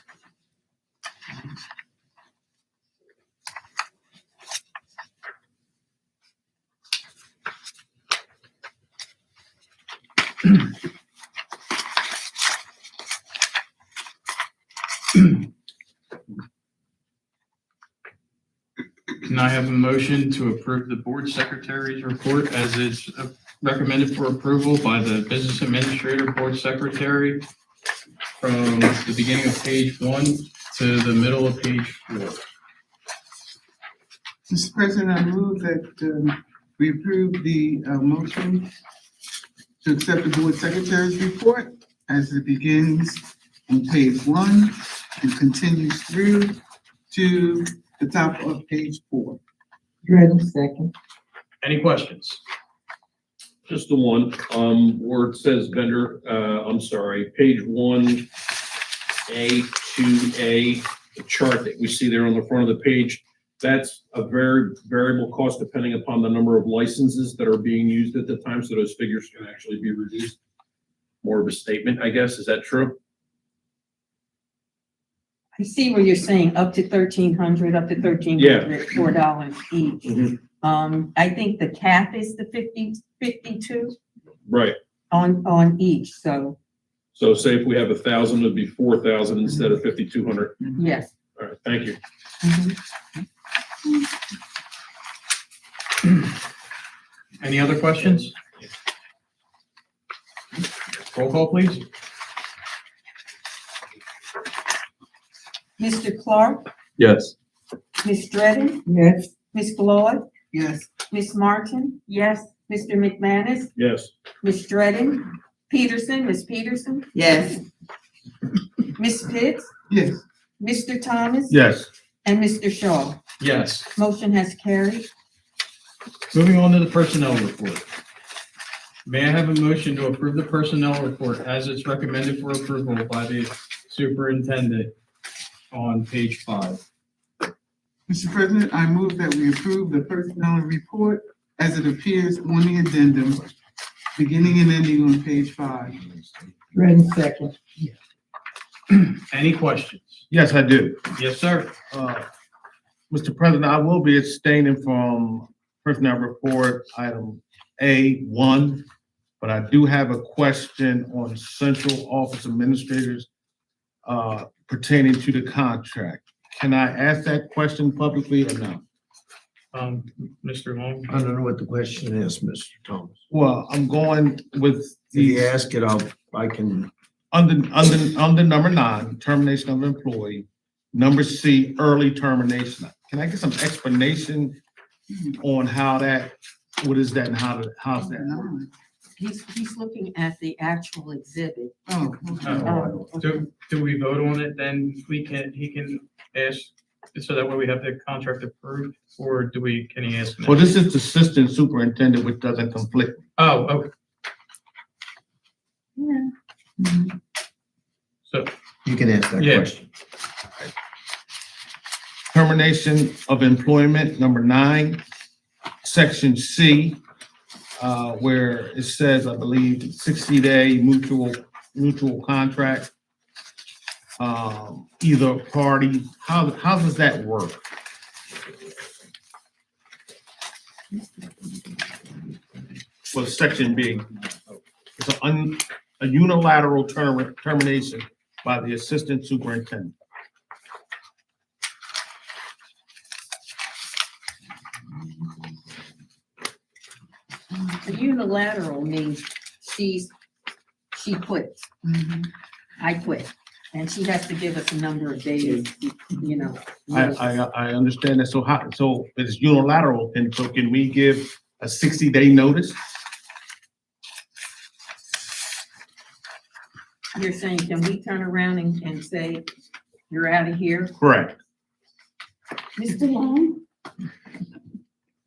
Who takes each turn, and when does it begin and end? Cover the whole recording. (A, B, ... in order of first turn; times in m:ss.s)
0:19.2-0:27.5 A
0:28.4-0:32.4 A
0:34.5-0:38.7 B
0:39.8-0:46.6 B
0:47.1-0:49.4 B
0:50.1-0:50.9 C
0:51.6-0:52.4 A
0:53.7-0:58.3 D
0:59.3-1:10.4 D
1:11.2-1:13.0 D
1:15.6-1:24.0 E
1:18.4-1:18.7 D
1:20.0-1:20.4 D
1:24.5-1:24.8 D
1:25.1-1:26.6 E
1:27.2-1:30.6 D
1:30.8-1:31.1 E
1:31.4-1:32.0 D
1:32.4-1:32.8 E
1:37.4-1:38.3 A
1:41.1-1:41.8 A
1:45.8-1:46.6 E
1:47.0-1:47.3 A
1:48.0-1:48.8 E
1:49.5-1:50.2 E
1:50.5-1:50.9 B
1:51.1-1:53.7 E
1:53.8-1:54.1 D
1:54.4-1:57.6 E
1:58.9-1:59.7 E
1:59.9-2:00.2 B
2:00.6-2:01.6 E
2:01.5-2:01.9 F
2:02.2-2:03.2 E
2:03.4-2:03.9 A
2:03.9-2:05.1 E
2:06.3-2:07.8 A
2:09.0-2:14.9 A
2:15.7-2:16.8 A
2:18.1-2:23.4 B
2:24.2-2:26.0 B
2:26.7-2:27.4 C
2:28.9-2:30.2 A
2:30.3-2:31.0 F
2:31.1-2:31.7 A
2:31.9-2:32.2 F
2:33.1-2:38.8 F
2:39.4-2:43.3 F
2:44.0-2:48.8 F
2:49.7-2:51.1 A
2:51.1-2:53.2 C
2:53.3-2:55.4 F
2:55.2-2:56.9 C
2:57.3-3:04.6 F
3:05.1-3:05.4 B
3:05.4-3:08.4 F
3:08.2-3:08.7 B
3:09.2-3:11.7 E
3:11.9-3:13.0 B
3:12.4-3:20.6 A
3:12.6-3:13.4 E
3:20.4-3:23.2 F
3:23.4-3:23.9 A
3:26.0-3:26.3 E
3:28.8-3:29.8 C
3:29.4-3:29.7 A
3:32.3-3:35.0 F
3:35.8-3:37.0 F
3:37.8-3:42.9 F
3:44.2-3:47.6 F
3:53.1-3:54.2 F
3:55.0-3:59.9 F
4:07.8-4:10.1 E
4:10.9-4:11.6 E
4:11.8-4:12.3 B
4:12.8-4:17.3 E
4:16.9-4:22.8 F
4:27.1-4:29.4 E
4:30.1-4:30.9 E
4:31.0-4:31.4 F
4:32.8-4:33.6 E